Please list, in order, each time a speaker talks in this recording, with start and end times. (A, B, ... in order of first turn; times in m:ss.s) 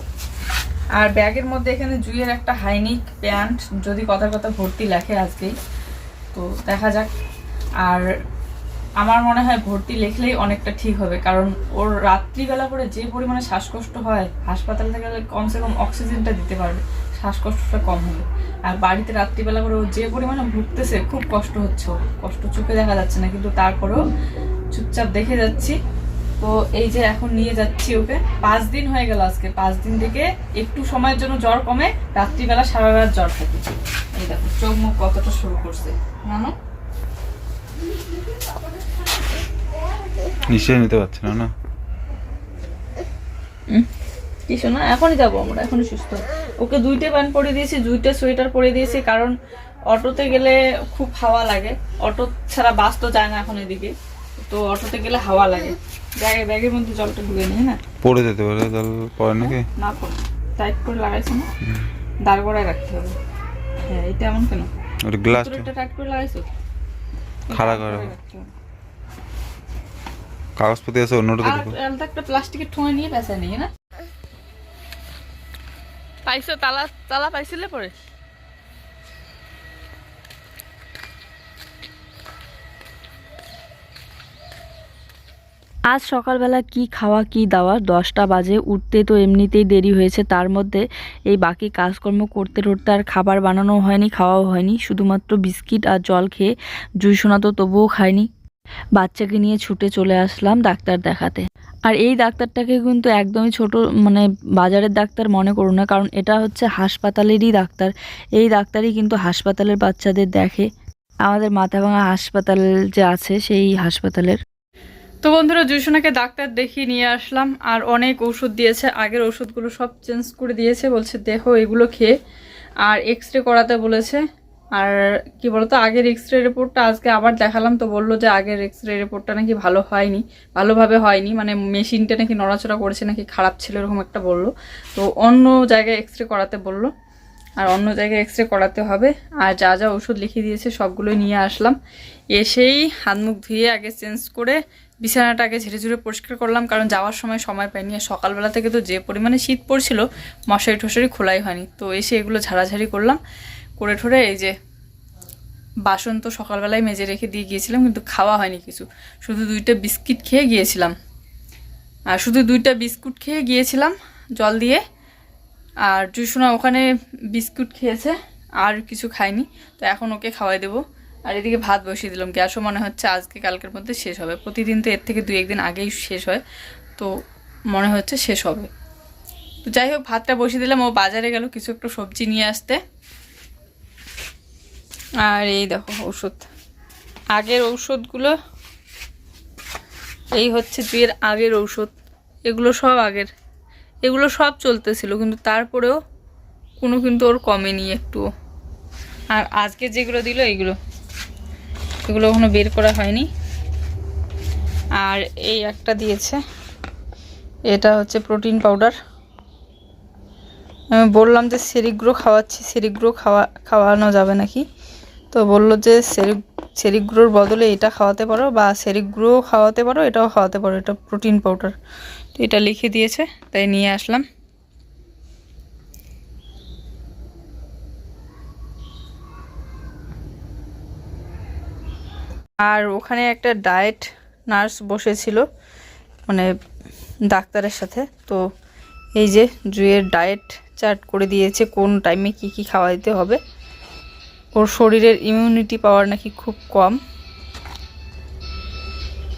0:00.9-0:05.5 A
0:06.3-0:07.1 A
0:09.0-0:24.0 A
0:24.7-0:25.8 A
0:26.4-0:36.5 A
0:40.5-0:41.5 B
0:44.5-0:49.4 A
0:49.9-0:57.8 A
0:58.0-0:59.7 B
0:59.4-1:01.5 A
1:02.2-1:03.2 A
1:03.8-1:04.7 A
1:05.0-1:05.7 B
1:05.3-1:06.4 A
1:07.5-1:08.5 A
1:07.5-1:08.1 B
1:10.6-1:11.8 B
1:11.4-1:13.7 A
1:16.2-1:17.9 A
1:25.9-1:38.3 C
1:39.0-1:50.7 C
1:51.2-1:54.4 C
1:55.2-2:02.1 A
2:02.8-2:04.2 A
2:04.8-2:16.9 A
2:17.6-2:21.8 A
2:22.4-2:33.2 A
2:33.8-2:34.5 A
2:35.8-2:40.9 A
2:42.1-2:44.8 A
2:45.9-2:56.4 A
2:57.7-2:58.7 A
2:59.6-3:02.8 A
3:05.2-3:06.5 A
3:07.4-3:08.4 A
3:10.4-3:11.9 A
3:12.5-3:13.3 A
3:14.0-3:16.0 A
3:16.8-3:18.2 A
3:19.3-3:20.8 A
3:22.1-3:23.3 A
3:25.0-3:26.4 A
3:27.7-3:28.9 A
3:30.9-3:34.6 A
3:35.3-3:41.7 A
3:42.4-3:44.2 A
3:52.6-3:55.4 A
3:57.3-3:58.4 A
3:59.2-4:03.4 A
4:04.6-4:07.0 A